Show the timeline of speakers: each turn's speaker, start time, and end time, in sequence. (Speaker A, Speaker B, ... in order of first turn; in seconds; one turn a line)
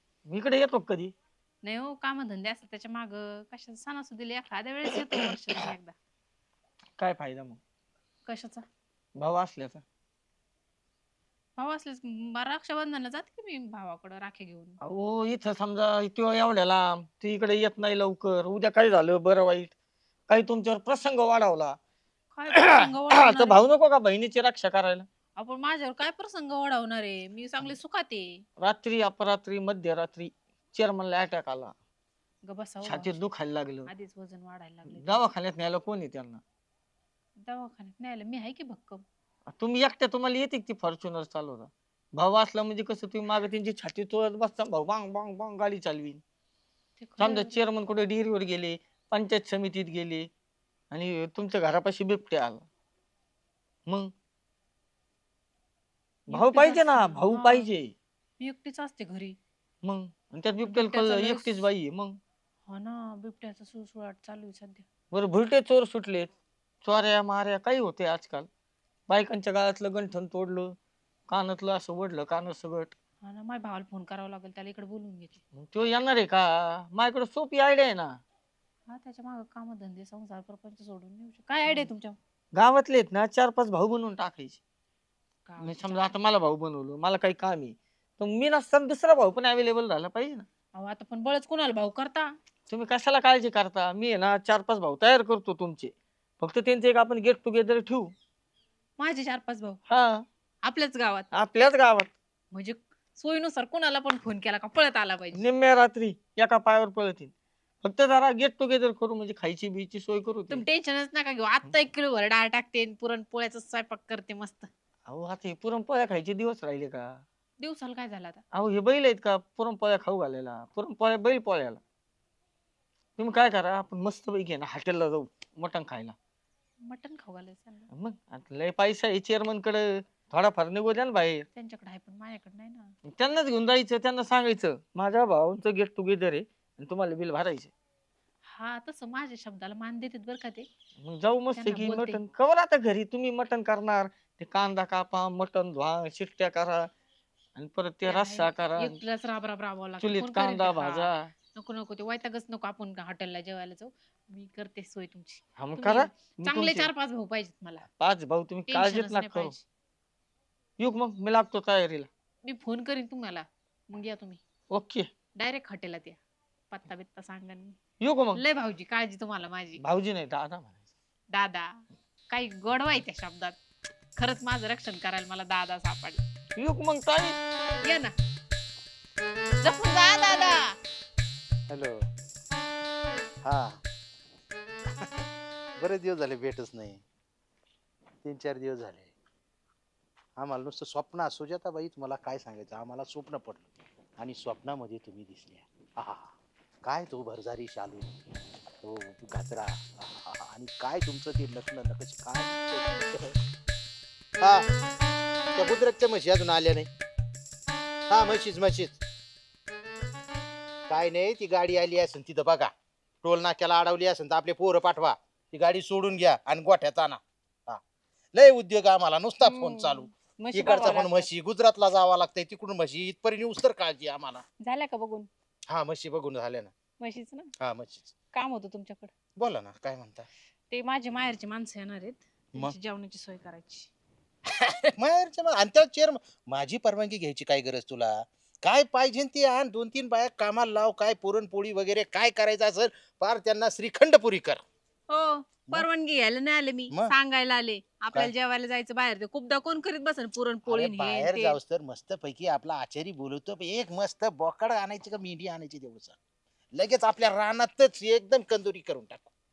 Speaker A: 0.3-1.1
Speaker B: 1.6-5.9
Speaker A: 7.0-7.6
Speaker B: 8.2-8.6
Speaker A: 9.2-9.8
Speaker B: 11.6-14.8
Speaker A: 14.8-19.7
Speaker A: 20.3-21.8
Speaker B: 22.3-23.6
Speaker A: 22.6-25.1
Speaker B: 25.4-28.4
Speaker A: 28.6-31.7
Speaker B: 32.4-33.2
Speaker A: 32.8-33.9
Speaker B: 33.9-35.3
Speaker A: 34.9-36.4
Speaker B: 37.4-39.0
Speaker A: 39.5-46.2
Speaker B: 47.0-47.6
Speaker A: 47.2-50.3
Speaker A: 50.9-52.6
Speaker B: 56.3-57.7
Speaker A: 56.3-57.9
Speaker B: 58.4-59.4
Speaker A: 59.8-62.2
Speaker B: 60.6-61.7
Speaker B: 62.7-64.8
Speaker A: 65.1-66.3
Speaker A: 66.8-68.5
Speaker A: 69.1-70.8
Speaker A: 71.3-72.9
Speaker B: 73.2-75.4
Speaker A: 75.5-78.2
Speaker B: 78.9-82.2
Speaker A: 82.5-84.6
Speaker B: 85.5-86.2
Speaker A: 85.6-90.5
Speaker B: 90.7-92.3
Speaker A: 92.7-98.1
Speaker B: 99.0-99.8
Speaker A: 99.9-100.2
Speaker B: 100.6-101.3
Speaker A: 101.3-102.1
Speaker B: 102.5-105.4
Speaker A: 105.3-110.6
Speaker B: 110.5-114.7
Speaker A: 115.1-117.2
Speaker B: 117.6-118.4
Speaker A: 118.5-121.8
Speaker A: 123.2-126.1
Speaker B: 126.8-127.9
Speaker A: 127.9-131.4
Speaker B: 131.5-132.9
Speaker A: 133.1-137.7
Speaker B: 138.4-140.7
Speaker A: 141.0-146.9
Speaker B: 141.5-142.2
Speaker A: 147.6-149.0
Speaker B: 148.1-157.8
Speaker A: 150.0-151.3
Speaker A: 155.6-156.9
Speaker A: 158.0-159.5
Speaker B: 158.7-159.6
Speaker A: 160.8-162.1
Speaker B: 162.4-164.4
Speaker A: 164.7-165.1
Speaker B: 165.3-166.2
Speaker B: 166.7-167.8
Speaker A: 168.0-168.4
Speaker B: 168.3-169.8
Speaker A: 169.8-170.9
Speaker B: 171.3-173.6
Speaker B: 174.2-176.2
Speaker A: 176.6-177.4
Speaker B: 177.8-178.1
Speaker B: 179.6-180.8
Speaker C: 181.7-181.9
Speaker C: 183.4-183.8
Speaker C: 185.8-187.0
Speaker C: 188.2-189.1
Speaker C: 190.4-193.7
Speaker C: 194.2-196.3
Speaker C: 196.8-198.1
Speaker C: 198.8-203.3
Speaker C: 204.4-204.7
Speaker C: 205.6-206.9
Speaker C: 208.1-209.0
Speaker C: 210.9-212.7
Speaker C: 213.2-217.8
Speaker C: 218.3-224.4
Speaker B: 219.4-221.3
Speaker B: 224.6-225.3
Speaker C: 225.7-226.7
Speaker B: 227.0-227.5
Speaker C: 227.6-228.1
Speaker B: 228.3-229.1
Speaker C: 229.4-230.3
Speaker B: 230.7-233.9
Speaker C: 234.6-244.6
Speaker B: 245.1-251.6
Speaker C: 250.7-256.2
Speaker C: 256.8-259.3